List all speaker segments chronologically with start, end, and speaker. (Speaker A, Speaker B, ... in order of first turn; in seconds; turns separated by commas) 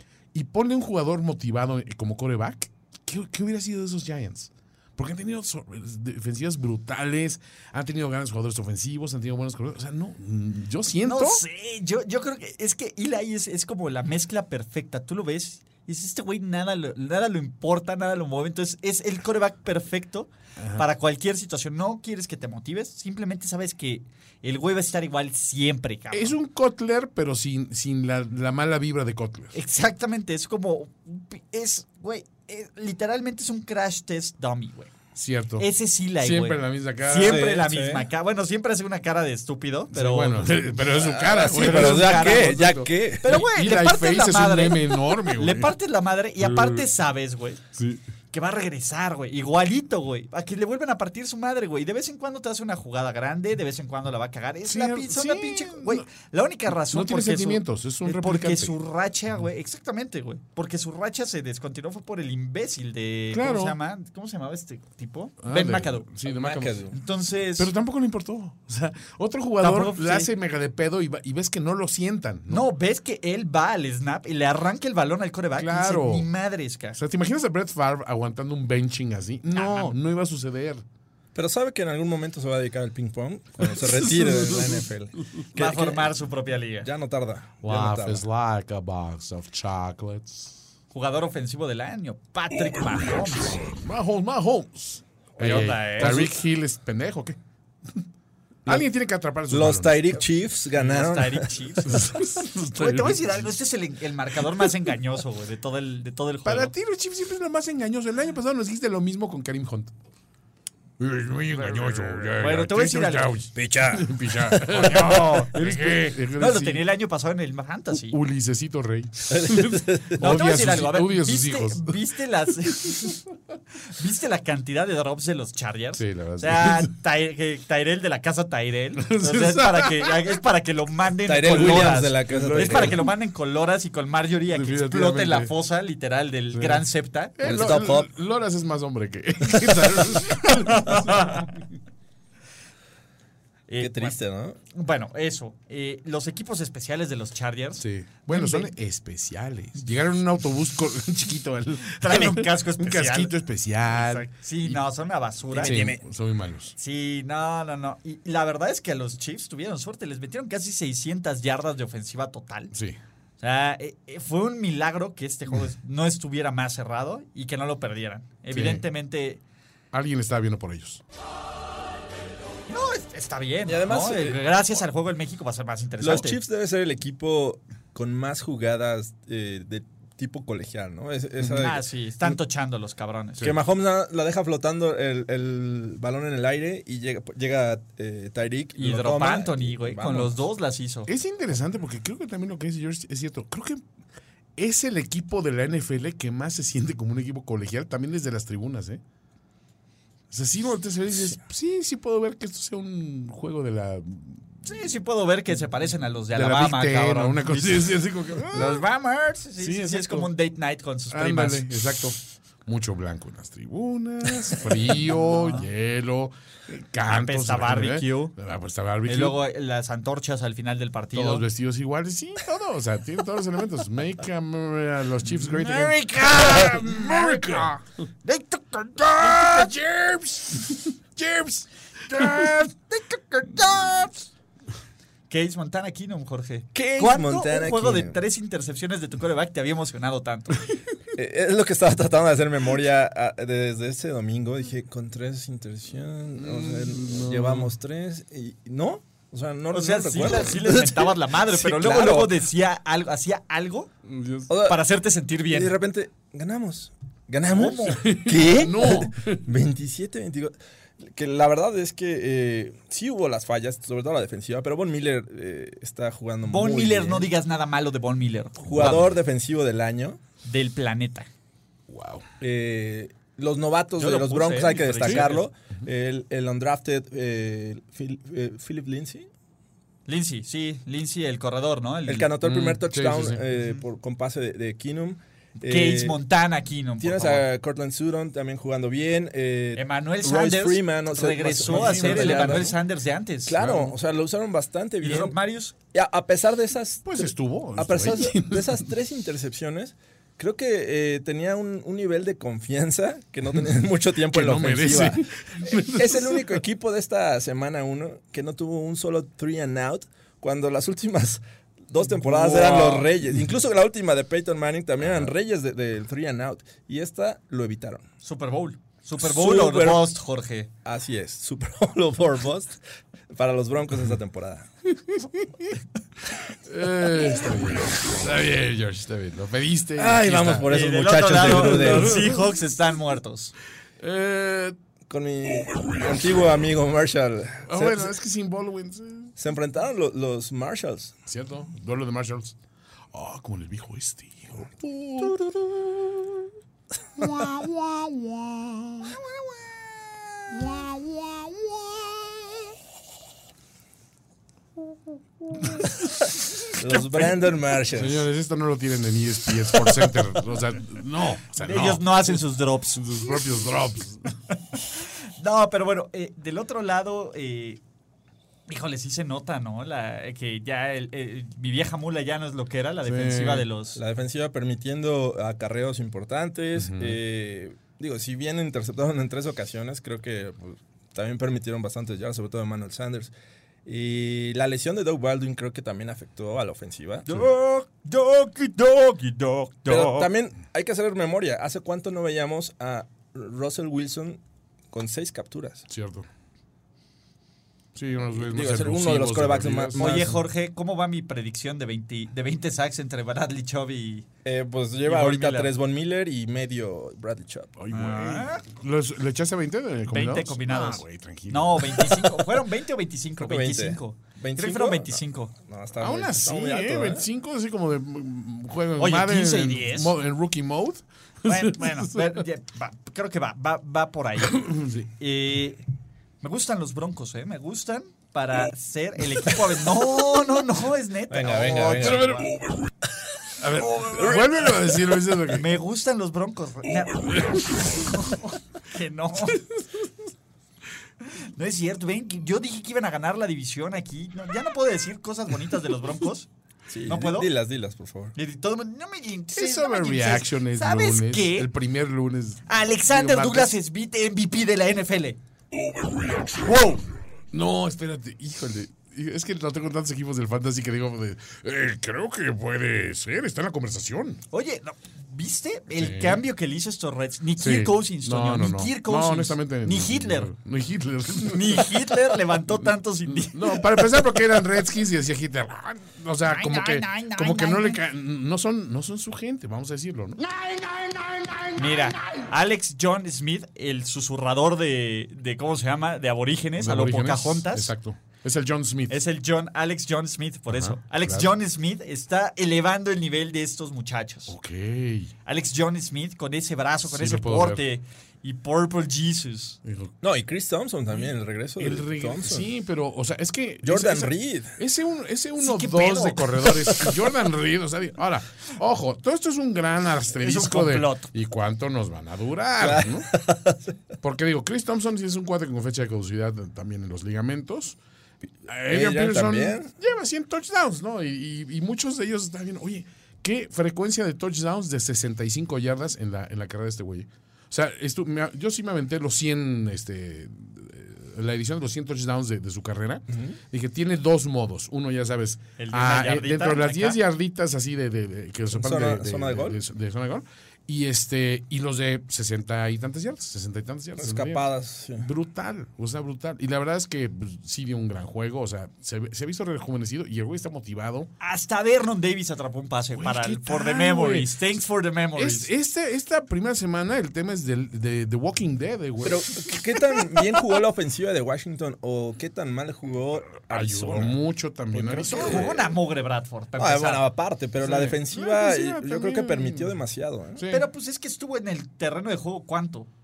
Speaker A: 0.3-11.4, Speaker B: 11.0-26.4, Speaker A: 20.6-20.8, Speaker A: 26.1-29.5, Speaker B: 29.5-35.0, Speaker A: 35.1-37.5, Speaker B: 35.6-40.7, Speaker C: 37.2-38.1, Speaker A: 39.9-45.7, Speaker C: 40.9-43.4, Speaker B: 41.5-42.6, Speaker B: 43.2-47.6, Speaker A: 46.4-46.9, Speaker A: 47.7-48.0, Speaker B: 48.3-66.1, Speaker A: 54.7-56.1, Speaker A: 56.7-58.7, Speaker A: 63.3-63.8, Speaker A: 65.4-66.8, Speaker C: 66.2-66.9, Speaker B: 66.9-67.7, Speaker A: 67.6-72.6, Speaker B: 69.6-70.3, Speaker B: 72.5-77.0, Speaker A: 75.6-76.3, Speaker A: 77.0-80.8, Speaker B: 79.5-79.9, Speaker C: 81.3-86.1, Speaker A: 83.6-84.8, Speaker B: 85.5-86.9, Speaker C: 86.8-88.2, Speaker A: 87.6-90.5, Speaker B: 90.9-93.6, Speaker A: 93.6-97.4, Speaker B: 95.4-96.3, Speaker C: 95.5-96.3, Speaker A: 98.7-100.2, Speaker C: 99.5-101.7, Speaker B: 100.7-106.7, Speaker A: 101.8-103.5, Speaker A: 106.5-109.9, Speaker A: 111.0-116.8, Speaker B: 111.6-113.4, Speaker C: 113.5-115.0, Speaker B: 114.7-118.2, Speaker A: 118.0-122.0, Speaker C: 119.3-120.2, Speaker B: 120.2-123.2, Speaker B: 123.9-137.7, Speaker A: 126.0-126.9, Speaker A: 129.0-130.3, Speaker C: 131.2-133.0, Speaker A: 131.5-133.1, Speaker A: 134.5-135.5, Speaker A: 136.5-136.9, Speaker A: 137.4-141.5, Speaker C: 137.4-138.1, Speaker B: 140.4-141.5, Speaker B: 143.7-144.2, Speaker C: 143.8-144.6, Speaker B: 144.7-148.7, Speaker A: 147.8-154.8, Speaker B: 151.9-153.3, Speaker B: 153.9-155.8, Speaker C: 155.5-156.0, Speaker A: 155.6-156.7, Speaker B: 156.8-162.7, Speaker A: 162.7-163.0, Speaker B: 163.4-169.4, Speaker A: 168.5-168.8, Speaker A: 169.9-171.0, Speaker B: 172.7-176.4, Speaker C: 173.7-174.4, Speaker C: 176.0-181.9, Speaker B: 181.5-183.6, Speaker C: 183.4-190.4, Speaker B: 188.8-191.1, Speaker A: 191.1-193.8, Speaker A: 194.6-199.0, Speaker A: 200.3-204.8, Speaker B: 204.6-211.7, Speaker A: 206.3-208.8, Speaker A: 209.6-210.3, Speaker A: 211.1-219.4, Speaker B: 214.6-215.7, Speaker B: 217.1-218.3, Speaker B: 219.0-221.4, Speaker A: 221.1-227.8, Speaker B: 225.3-229.7, Speaker A: 229.2-232.6, Speaker B: 232.1-234.3, Speaker B: 235.3-240.7, Speaker C: 236.7-238.2, Speaker C: 241.1-252.4, Speaker A: 246.4-247.7, Speaker B: 249.7-253.9, Speaker A: 254.0-254.5, Speaker C: 254.5-254.8, Speaker B: 254.6-255.7, Speaker C: 255.5-267.3, Speaker B: 257.5-258.2, Speaker A: 257.9-259.5, Speaker B: 266.4-269.1, Speaker C: 268.6-270.2, Speaker B: 270.4-271.3, Speaker A: 271.9-272.2, Speaker C: 272.4-279.3, Speaker B: 274.0-275.5, Speaker A: 275.0-275.3, Speaker B: 280.1-282.3, Speaker C: 282.1-286.2, Speaker A: 282.4-283.4, Speaker B: 283.6-283.8, Speaker B: 285.6-287.4, Speaker C: 287.0-292.7, Speaker B: 289.7-293.6, Speaker A: 291.6-292.7, Speaker C: 293.4-295.4, Speaker A: 293.6-293.9, Speaker B: 295.0-295.7, Speaker C: 295.9-318.0, Speaker A: 297.0-298.8, Speaker A: 304.2-306.5, Speaker B: 312.2-313.0, Speaker A: 312.5-312.9, Speaker B: 318.2-320.7, Speaker C: 319.2-320.1, Speaker C: 320.8-322.8, Speaker C: 323.3-324.7, Speaker A: 325.0-325.8, Speaker A: 326.5-330.7, Speaker C: 330.0-332.3, Speaker B: 330.7-333.5, Speaker A: 331.5-332.4, Speaker A: 334.0-334.8, Speaker C: 335.1-338.1, Speaker A: 337.7-339.3, Speaker C: 339.4-341.1, Speaker A: 341.3-342.6, Speaker A: 343.1-345.7, Speaker A: 347.2-349.1, Speaker B: 349.1-351.2, Speaker B: 351.9-352.3, Speaker C: 356.8-358.2, Speaker A: 357.9-362.4, Speaker B: 361.5-363.3, Speaker A: 362.9-364.3, Speaker B: 364.9-367.8, Speaker B: 368.7-374.0, Speaker A: 373.0-373.7, Speaker C: 373.9-383.3, Speaker A: 376.8-377.2, Speaker C: 383.9-387.4, Speaker B: 387.2-390.3, Speaker C: 389.9-395.9, Speaker A: 395.9-396.3, Speaker A: 397.9-400.2, Speaker C: 398.3-400.4, Speaker B: 399.9-404.3, Speaker C: 404.4-407.7, Speaker B: 405.0-405.7, Speaker A: 407.8-412.6, Speaker B: 407.9-408.6, Speaker B: 410.1-415.5, Speaker C: 413.4-417.3, Speaker A: 416.0-422.4, Speaker B: 419.0-420.1, Speaker B: 421.4-425.8, Speaker A: 424.5-425.1, Speaker B: 426.4-432.4, Speaker C: 431.3-432.4, Speaker A: 432.0-432.5, Speaker A: 433.6-435.7, Speaker C: 434.1-434.6, Speaker B: 435.5-439.6, Speaker B: 441.2-446.5, Speaker C: 446.9-448.4, Speaker B: 447.1-447.5, Speaker B: 448.4-451.7, Speaker A: 449.5-453.8, Speaker B: 452.7-455.4, Speaker B: 456.5-457.0, Speaker A: 457.5-464.4, Speaker B: 464.5-470.5, Speaker A: 465.9-466.4, Speaker A: 467.6-472.1, Speaker B: 471.4-474.2, Speaker A: 473.3-482.4, Speaker B: 476.4-478.0, Speaker B: 481.8-487.9, Speaker A: 486.8-489.2, Speaker B: 489.1-494.5, Speaker A: 490.7-491.5, Speaker A: 494.5-495.3, Speaker B: 495.4-499.8, Speaker A: 497.0-497.9, Speaker A: 499.9-500.1, Speaker C: 500.2-502.7, Speaker A: 501.8-513.3, Speaker C: 503.8-504.8, Speaker B: 505.6-506.7, Speaker B: 510.4-511.3, Speaker C: 512.8-513.8, Speaker A: 514.2-518.0, Speaker A: 518.6-544.6, Speaker C: 518.9-519.9, Speaker C: 533.3-533.6, Speaker B: 535.8-537.2, Speaker C: 538.7-539.8, Speaker C: 544.2-545.3, Speaker A: 545.2-551.3, Speaker B: 551.4-555.7, Speaker A: 553.1-554.6, Speaker A: 555.4-559.5, Speaker C: 559.2-564.4, Speaker A: 563.5-565.8, Speaker C: 564.9-566.0, Speaker B: 565.1-567.2, Speaker C: 566.8-570.6, Speaker A: 567.8-570.0, Speaker A: 570.6-570.9, Speaker B: 570.7-573.1